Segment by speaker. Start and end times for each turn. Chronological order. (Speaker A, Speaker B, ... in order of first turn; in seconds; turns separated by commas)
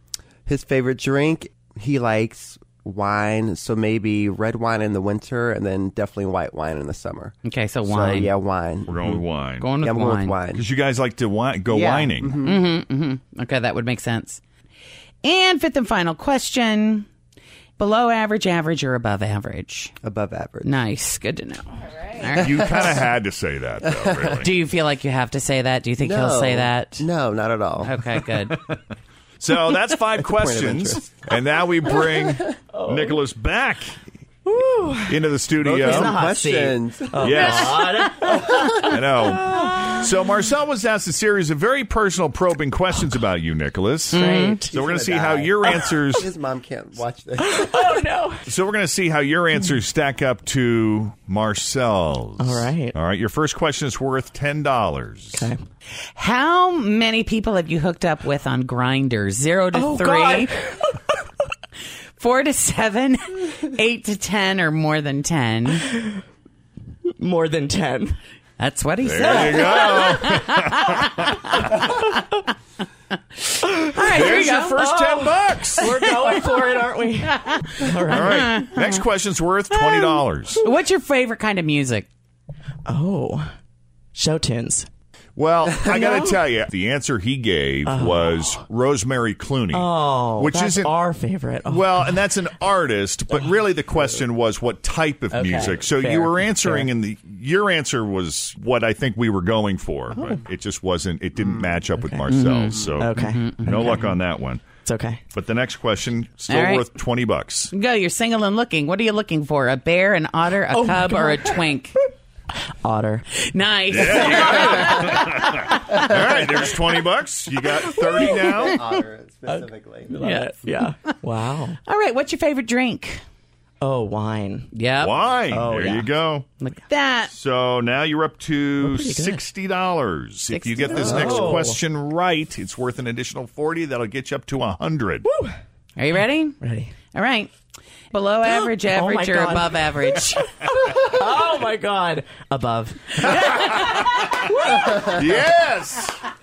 Speaker A: 0.5-9.2, Speaker B: 7.4-8.3, Speaker C: 8.9-9.7, Speaker B: 9.6-10.4, Speaker A: 9.8-10.6, Speaker C: 10.5-12.4, Speaker A: 11.7-12.6, Speaker B: 12.4-14.4, Speaker B: 15.2-17.1, Speaker B: 17.8-19.9, Speaker A: 20.0-20.7, Speaker B: 20.6-22.9, Speaker C: 22.4-24.5, Speaker A: 23.9-24.3, Speaker B: 24.4-27.1, Speaker A: 26.0-28.0, Speaker B: 27.8-28.6, Speaker C: 29.4-34.0, Speaker A: 30.2-31.1, Speaker A: 32.1-32.3, Speaker D: 32.7-33.2, Speaker D: 34.4-40.1, Speaker C: 35.1-36.2, Speaker A: 35.6-38.8, Speaker C: 37.2-38.1, Speaker C: 38.7-46.3, Speaker B: 44.1-44.6, Speaker D: 44.1-44.8, Speaker A: 44.7-48.0, Speaker D: 47.4-48.5, Speaker C: 48.5-55.5, Speaker D: 52.4-53.0, Speaker D: 55.3-55.6, Speaker B: 56.1-60.5, Speaker D: 59.7-60.9, Speaker B: 62.2-65.8, Speaker D: 65.8-66.2, Speaker D: 67.2-68.2, Speaker B: 68.6-72.0, Speaker C: 69.0-71.9, Speaker D: 69.3-70.0, Speaker D: 73.8-78.7, Speaker B: 73.9-74.9, Speaker C: 74.0-76.2, Speaker B: 75.8-79.0, Speaker C: 78.1-80.6, Speaker B: 79.7-82.1, Speaker D: 82.8-83.5, Speaker D: 84.1-84.9, Speaker C: 85.3-91.0, Speaker D: 85.8-86.4, Speaker D: 87.8-88.5, Speaker D: 89.7-92.3, Speaker C: 91.6-104.7, Speaker D: 95.3-96.9, Speaker D: 100.1-100.4, Speaker D: 102.0-102.3, Speaker B: 102.3-104.1, Speaker D: 103.0-104.1, Speaker D: 104.8-105.2, Speaker C: 105.3-107.7, Speaker B: 106.5-106.9, Speaker B: 107.7-112.0, Speaker D: 110.7-111.8, Speaker D: 112.8-113.2, Speaker B: 113.4-116.0, Speaker C: 113.9-118.8, Speaker D: 118.0-118.6, Speaker B: 118.2-118.6, Speaker A: 118.5-120.1, Speaker D: 119.5-121.8, Speaker B: 120.2-120.7, Speaker B: 121.8-123.2, Speaker D: 123.8-124.7, Speaker B: 124.7-125.2, Speaker C: 125.0-126.5, Speaker D: 125.5-126.1, Speaker B: 126.6-127.3, Speaker C: 127.3-135.2, Speaker D: 128.8-129.4, Speaker B: 130.5-131.4, Speaker D: 130.8-131.8, Speaker A: 131.1-131.5, Speaker D: 135.2-135.6, Speaker B: 136.0-136.6, Speaker D: 136.6-136.9, Speaker B: 137.1-137.5, Speaker B: 138.1-140.5, Speaker D: 138.5-145.2, Speaker C: 143.3-146.2